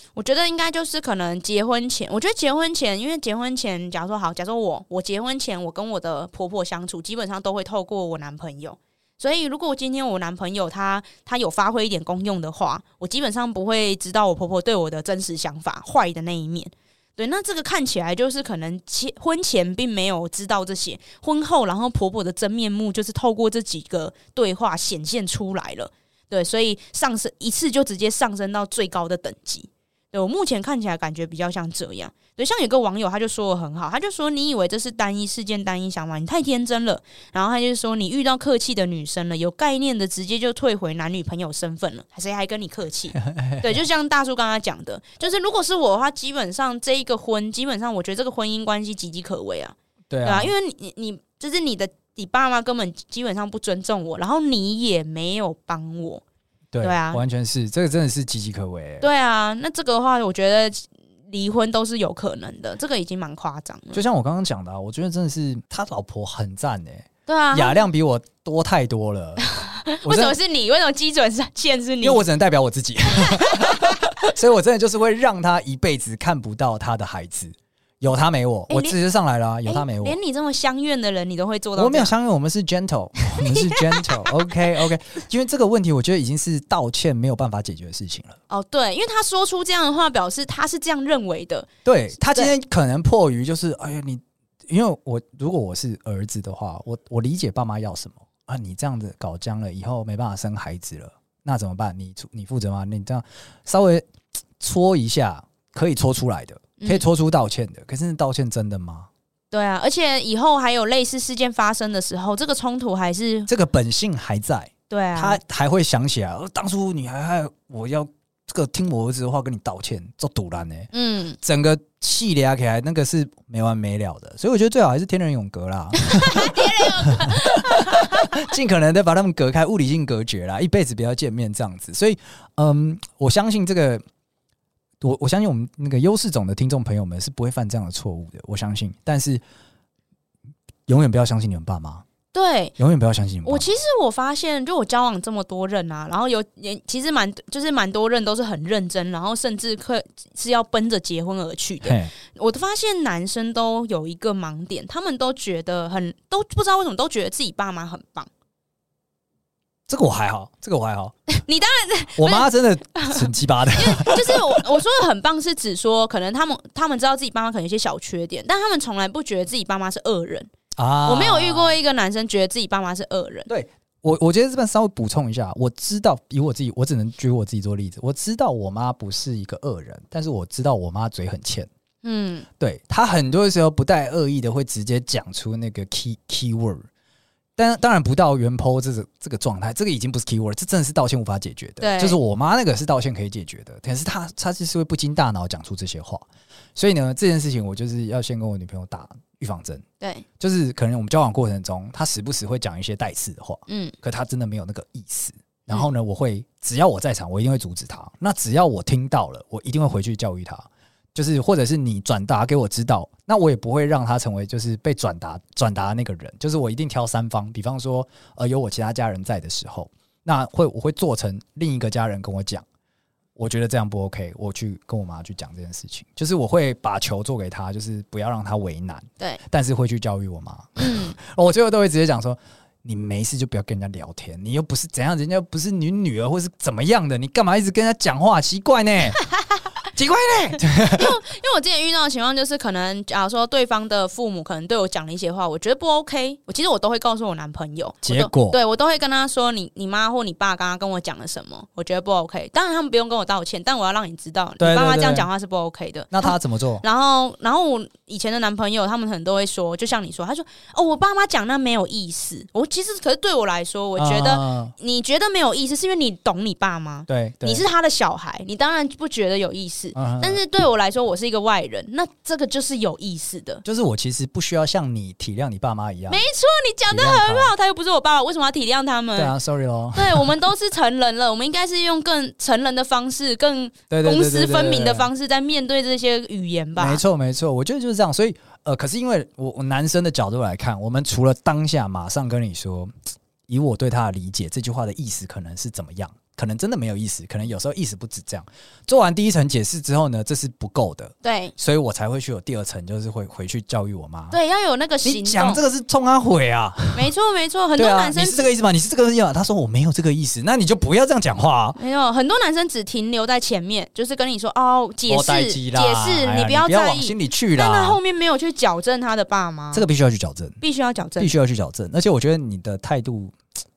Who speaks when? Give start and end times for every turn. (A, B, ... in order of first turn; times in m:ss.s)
0:00.1-0:56.2 A
0:43.2-0:43.7 B
0:50.1-0:50.5 B
0:56.7-0:59.1 B
0:56.8-0:57.2 A
0:59.0-1:04.0 A
1:03.9-1:09.4 B
1:07.3-1:07.8 A
1:09.4-1:12.2 A
1:10.0-1:10.4 B
1:12.0-1:20.2 B
1:13.2-1:14.1 A
1:18.7-1:19.0 A
1:19.6-1:22.1 A
1:21.8-1:28.4 B
1:23.3-1:24.3 A
1:28.5-1:32.5 A
1:31.8-1:44.1 B
1:44.6-1:49.1 B
1:49.5-1:53.5 A
1:53.5-2:00.9 B
1:54.9-1:55.4 A
2:00.9-2:01.4 A
2:01.4-2:14.0 B
2:06.0-2:08.3 A
2:15.0-2:19.4 B
2:20.9-2:22.0 B
2:22.3-2:22.7 A
2:22.8-2:23.7 B
2:23.4-2:38.3 A
2:31.8-2:32.1 B
2:39.9-2:41.2 B
2:41.3-2:50.5 A
2:42.2-2:44.6 B
2:50.8-2:51.8 B
2:51.0-2:53.5 A
2:53.5-3:01.7 B
3:02.0-3:02.5 A
3:02.6-3:06.8 B
3:07.6-3:16.2 B
3:11.8-3:12.2 A
3:16.8-3:19.8 B
3:20.0-3:20.2 A
3:20.4-3:42.6 B
3:23.7-3:23.9 A
3:43.4-3:59.2 B
3:50.8-3:51.1 A
3:59.9-4:01.2 B
4:00.8-4:33.6 A
4:08.0-4:08.6 B
4:14.6-4:15.3 B
4:16.1-4:16.8 B
4:24.0-4:24.7 B
4:27.1-4:27.6 B
4:29.9-4:30.4 B
4:33.6-4:36.2 B
4:36.1-4:39.3 A
4:36.9-4:37.5 B
4:39.2-4:40.3 B
4:39.9-4:47.0 A
4:43.9-4:45.1 B
4:46.8-4:52.9 B
4:53.5-5:04.4 B
5:01.2-5:01.5 A
5:04.3-5:05.6 A
5:05.0-5:07.1 B
5:06.9-5:08.5 A
5:07.8-5:11.8 B
5:11.8-5:19.8 A
5:15.1-5:18.0 B
5:19.7-5:20.6 B
5:20.6-5:21.3 A
5:21.2-5:23.4 B